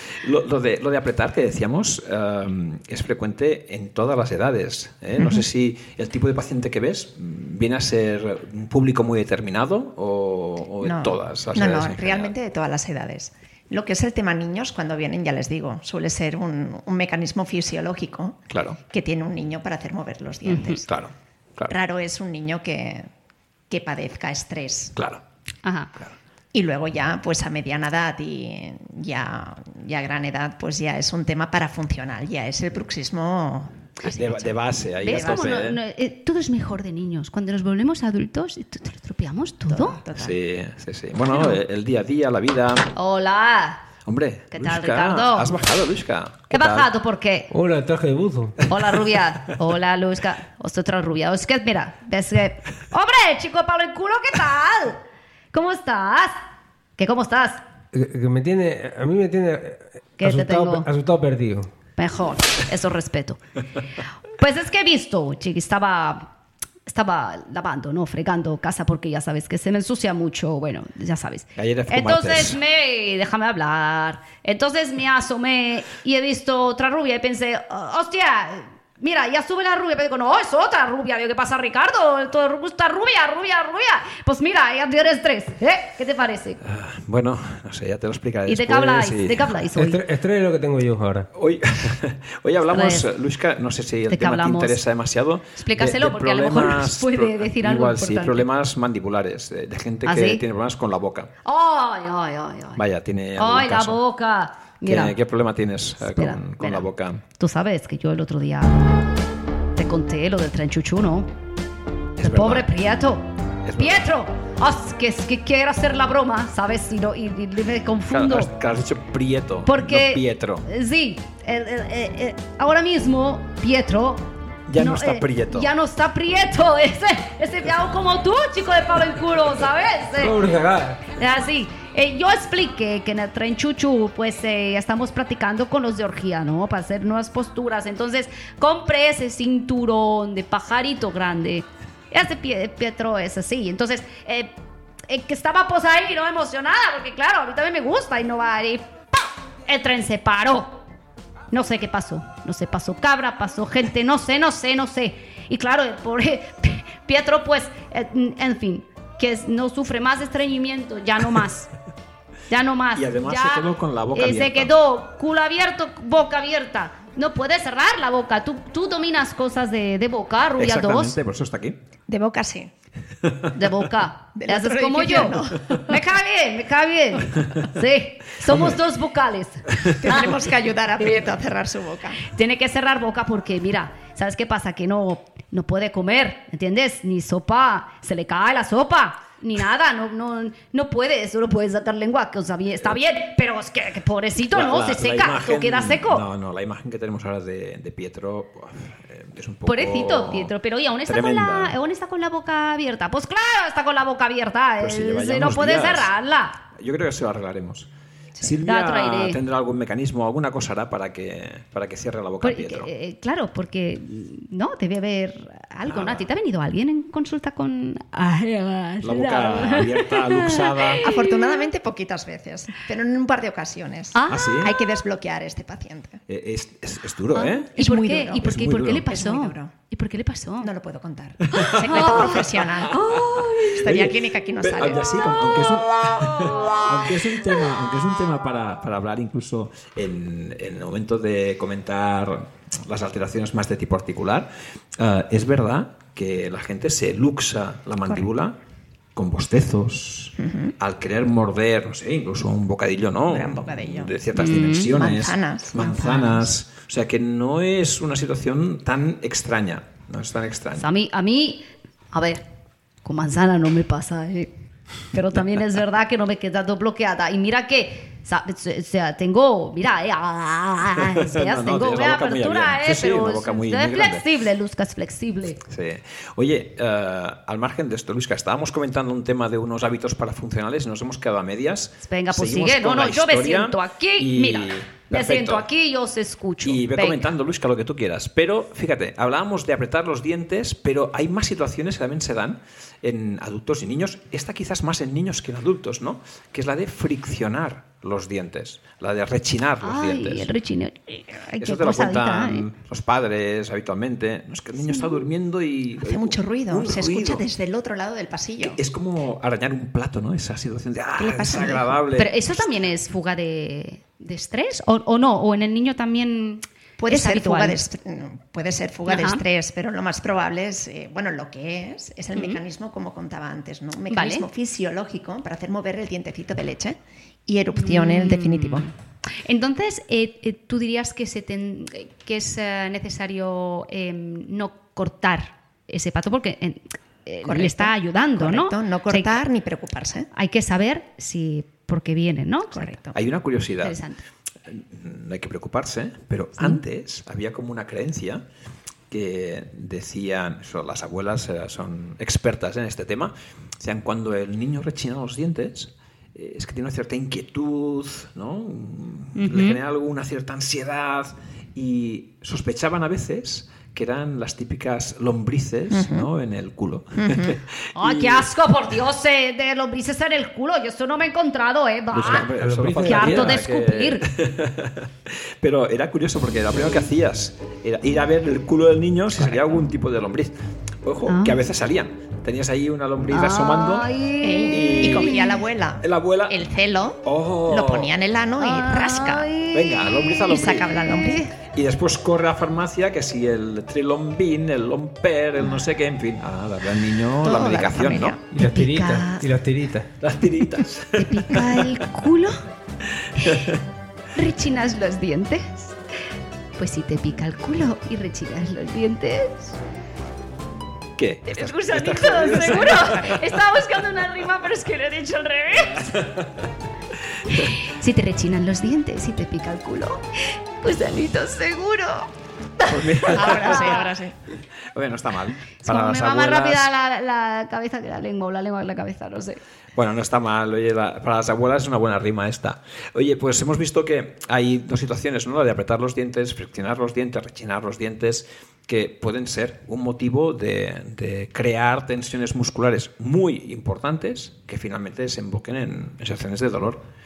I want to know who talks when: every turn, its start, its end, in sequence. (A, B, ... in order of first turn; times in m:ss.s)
0:00.2-0:12.3 A
0:05.2-0:05.4 B
0:10.8-0:20.9 B
0:18.5-0:18.8 A
0:20.4-0:20.8 C
0:20.9-0:21.7 A
0:21.7-0:23.1 B
0:23.7-0:24.9 B
0:25.0-0:25.2 A
0:25.6-0:25.9 C
0:26.5-0:34.5 B
0:34.0-0:35.8 A
0:35.0-0:40.0 C
0:35.0-0:35.6 B
0:39.7-0:40.4 B
0:40.2-0:42.9 A
0:41.3-0:41.6 C
0:42.9-0:43.9 C
0:44.0-0:46.9 A
0:44.5-0:45.5 C
0:46.5-0:47.5 C
0:47.5-0:48.6 D
0:48.6-0:48.9 A
0:48.7-0:55.0 C
0:55.5-0:56.4 C
0:57.0-0:57.6 C
0:57.9-1:01.7 D
1:00.2-1:00.9 C
1:02.0-1:03.4 C
1:04.4-1:06.3 C
1:06.9-1:26.6 C
1:11.6-1:12.6 A
1:26.6-1:29.5 A
1:28.5-1:30.0 C
1:29.8-1:31.3 D
1:31.4-1:41.3 A
1:32.7-1:33.1 C
1:34.1-1:34.8 C
1:35.6-1:38.5 C
1:40.0-1:40.4 C
1:41.4-1:42.8 C
1:42.8-1:44.0 A
1:43.4-1:45.2 C
1:44.8-1:47.2 A
1:46.0-1:46.9 C
1:47.4-1:49.0 C
1:49.7-1:51.3 C
1:52.2-1:52.7 A
1:52.2-1:58.5 C
1:53.6-1:54.0 A
1:58.1-2:00.7 A
1:59.6-2:10.4 C
2:04.7-2:05.7 A
2:10.2-2:11.0 D
2:11.1-2:24.5 C
2:25.1-2:30.8 C
2:31.5-2:41.7 C
2:42.5-2:51.2 C
2:42.9-2:44.7 A
2:50.6-2:51.8 A
2:52.1-2:52.7 B
2:53.5-3:00.3 C
2:54.4-2:56.0 B
2:58.5-2:58.8 A
3:00.0-3:02.2 B
3:01.0-3:01.3 C
3:02.2-3:16.2 C
3:14.5-3:20.5 A
3:19.6-3:26.6 C
3:21.1-3:21.7 A
3:24.8-3:26.1 A
3:26.7-3:32.9 A
3:28.6-3:29.4 C
3:32.4-3:41.6 C
3:35.9-3:36.3 A
3:39.0-3:41.1 A
3:41.0-3:46.2 B
3:44.1-3:44.6 C
3:44.3-3:44.8 A
3:46.3-3:47.7 A
3:47.3-3:50.7 C
3:47.8-3:49.7 B
3:48.4-3:49.1 A
3:50.6-3:53.2 B
3:51.5-3:53.8 C
3:51.5-3:52.5 A
3:53.2-4:08.6 A
3:53.7-3:55.1 B
4:09.1-4:20.8 A
4:10.4-4:10.7 B
4:13.3-4:14.1 B
4:14.4-4:14.9 C
4:14.8-4:16.5 B
4:20.8-4:22.4 C
4:23.0-4:24.5 C
4:25.1-4:35.6 C
4:31.0-4:34.3 A
4:35.6-4:45.6 A
4:42.0-4:47.2 C
4:46.6-5:00.5 A
4:59.8-5:02.6 C
5:01.6-5:07.4 A
5:06.0-5:08.8 B
5:08.6-5:12.4 A
5:11.2-5:12.0 B
5:12.1-5:17.8 C
5:17.0-5:28.9 B
5:19.1-5:19.4 C
5:22.3-5:22.6 C
5:24.1-5:24.5 C
5:27.7-5:39.4 C
5:37.4-5:40.3 B
5:40.3-5:43.0 C
5:42.7-5:43.1 B
5:43.1-5:44.0 A
5:43.8-5:44.2 C
5:44.6-5:48.4 A
5:49.1-6:08.4 A
5:59.4-5:59.8 C
6:05.9-6:06.3 B
6:07.2-6:07.6 B
6:07.9-6:12.5 C
6:12.1-6:24.1 A
6:12.2-6:13.6 D
6:13.0-6:14.2 C
6:21.2-6:21.6 C
6:23.3-6:25.6 C
6:24.4-6:29.5 B
6:24.7-6:25.4 A
6:26.0-6:26.6 A
6:27.2-6:28.1 A
6:28.6-6:31.6 C
6:29.7-6:31.0 A
6:30.5-6:31.5 B
6:31.6-6:38.4 A
6:37.4-6:38.4 B
6:38.5-6:40.1 D
6:38.6-6:39.5 C
6:40.2-6:42.0 A
6:41.2-6:42.6 C
6:43.2-6:43.8 A
6:43.4-6:43.6 C
6:44.4-6:46.0 C
6:46.8-6:49.8 C
6:51.2-6:53.4 A
6:51.5-6:56.2 C
6:52.9-6:53.3 B
6:56.0-6:56.6 A
6:57.5-7:02.3 C
7:02.8-7:04.1 C
7:02.9-7:04.1 A
7:03.3-7:04.4 B
7:04.9-7:06.9 A
7:05.8-7:09.6 C
7:09.9-7:27.0 A